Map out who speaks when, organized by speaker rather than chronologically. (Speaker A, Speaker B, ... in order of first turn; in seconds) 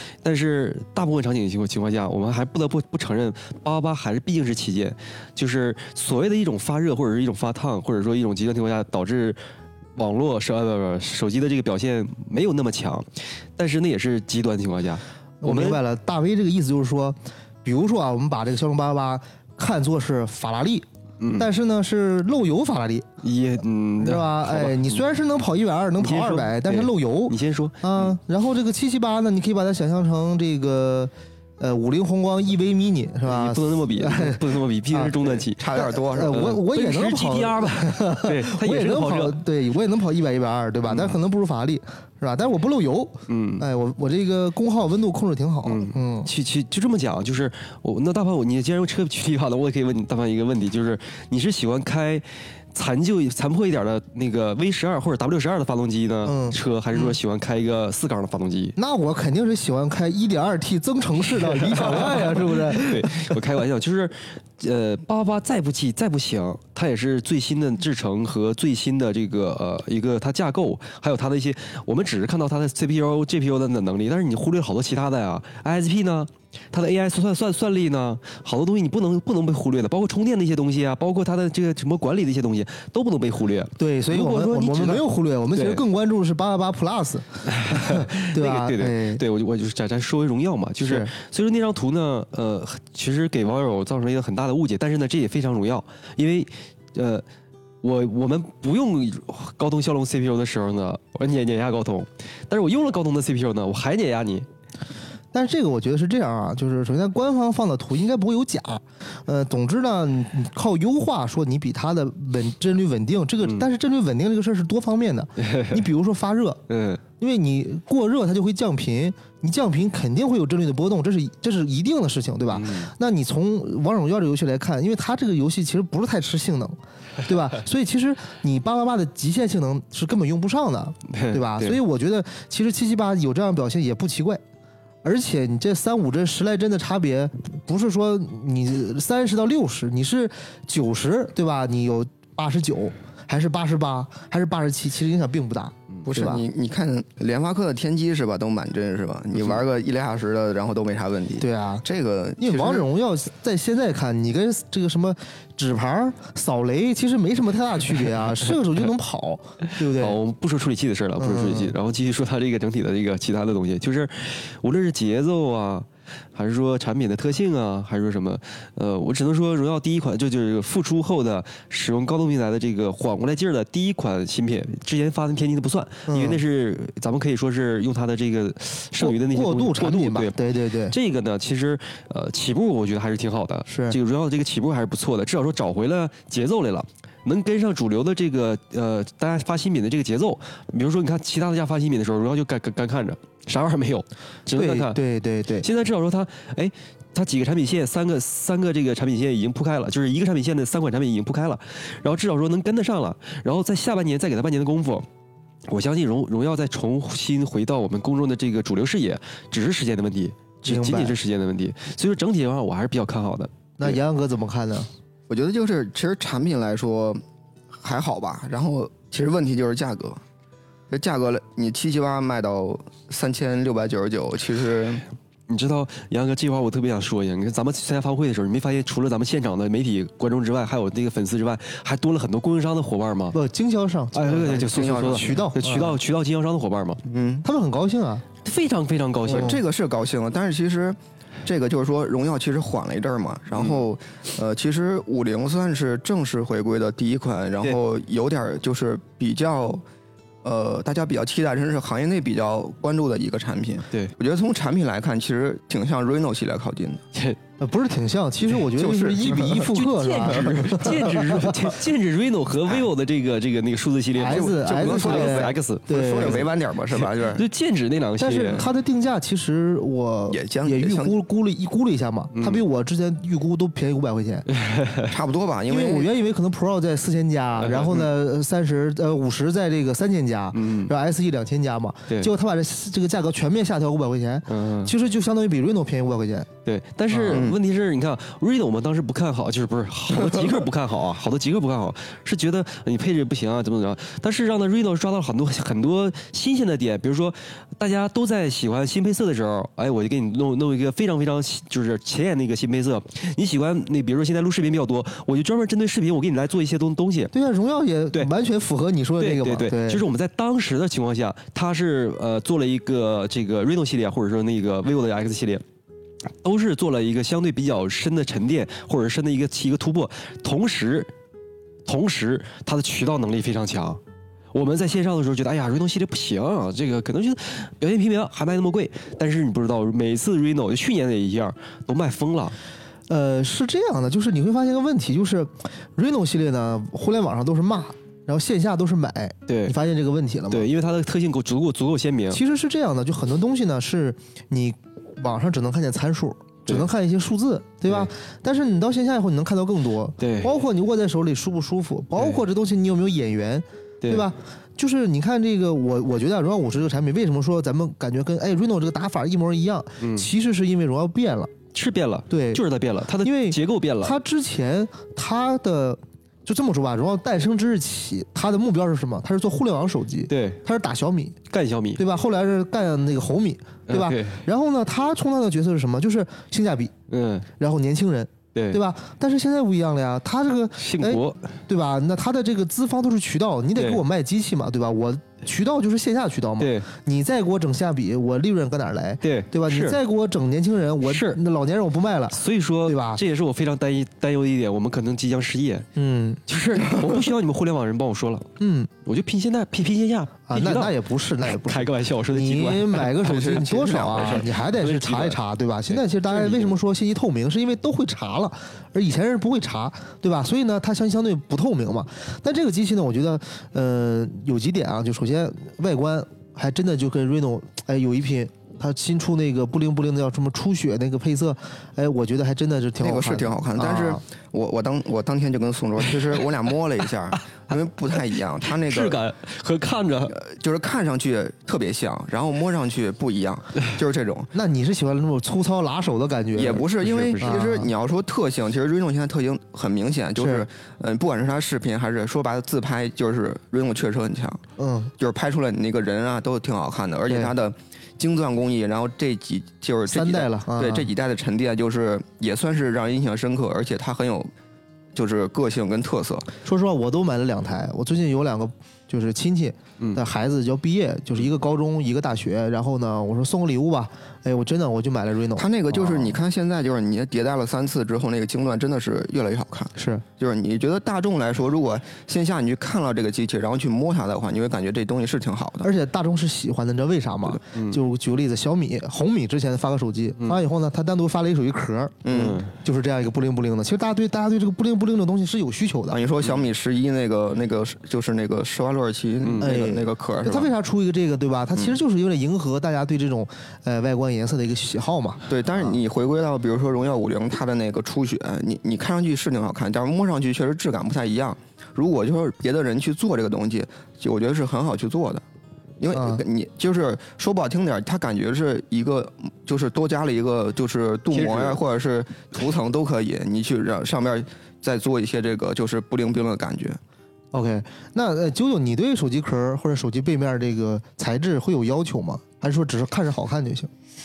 Speaker A: 0.2-9.4, 9.9-15.8, 21.2-21.5, 23.2-25.0, 26.0-28.1, 33.2-39.4, 40.8-41.2, 43.3-43.7, 45.6-58.8, 61.4-85.8, 87.5-97.2, 97.8-104.5, 115.4-115.8, 116.7-117.0, 122.5-122.9, 131.1-131.8, 158.5-158.9, 159.6-180.4, 180.9-195.0, 195.6-205.1, 205.7-213.5, 225.5-233.3, 234.1-237.0, 238.4-239.6, 259.3-268.6, 272.3-272.6, 274.5-275.1, 277.6-278.1, 280.5-280.9, 284.5-284.9, 286.6-307.3, 309.2-315.6, 316.4-321.1, 321.9-324.0, 324.5-332.6, 339.5-339.8, 340.5-342.4, 347.9-348.1, 350.2-350.6, 352.2-352.4, 354.0-354.3, 360.0-360.3, 361.7-364.1, 370.3-370.6, 371.5-372.0, 373.9-374.4, 377.1-377.4, 378.5-378.8, 380.8-381.4, 383.7-384.0, 386.6-386.9, 389.2-390.0, 391.0-391.4, 392.3-395.9, 396.5-398.4, 399.0-405.4, 405.9-406.8, 426.1-426.4, 427.5-430.4, 437.0-437.7, 477.6-478.0, 482.3-482.7, 489.4-489.7, 511.3-511.8
Speaker B: 15.4-23.1, 24.0-46.3, 56.2-57.2, 58.8-63.3, 83.8-89.2, 90.8-91.1, 105.3-116.6, 117.2-134.4, 135.0-146.4, 151.4-151.8, 152.4-160.2, 161.2-161.7, 176.1-176.4, 178.9-180.9, 183.7-184.0, 194.5-195.7, 210.6-211.2, 213.8-214.9, 233.3-236.0, 237.4-238.2, 239.3-239.6, 257.6-261.6, 264.1-266.5, 268.2-274.4, 275.7-286.5, 287.1-287.5, 307.3-310.0, 333.1-340.7, 342.3-361.5, 362.3-362.6, 363.2-371.4, 372.0-376.9, 377.6-393.2, 395.9-396.4, 398.6-398.9, 400.5-424.2, 434.5-436.9, 437.4-437.9, 440.4-440.7, 444.8-445.1, 447.3-447.5, 450.1-451.1, 456.6-466.4, 469.9-470.2, 475.8-486.2, 489.6-496.0, 506.1-506.4, 517.5-523.9
Speaker C: 35.6-36.4, 146.1-152.8, 215.3-217.2, 217.7-220.2, 220.9-225.0, 234.3-235.5, 237.1-237.4, 239.3-249.8, 250.4-257.0, 258.7-261.5, 264.2-267.4, 270.3-271.1, 275.1-276.1, 287.3-287.6, 290.3-290.6, 403.2-404.5, 423.0-429.2, 430.3-434.5, 436.5-444.6, 445.2-454.5, 455.1-456.5, 465.6-475.9, 482.2-482.6, 486.1-490.7, 495.5-505.4, 506.0-517.0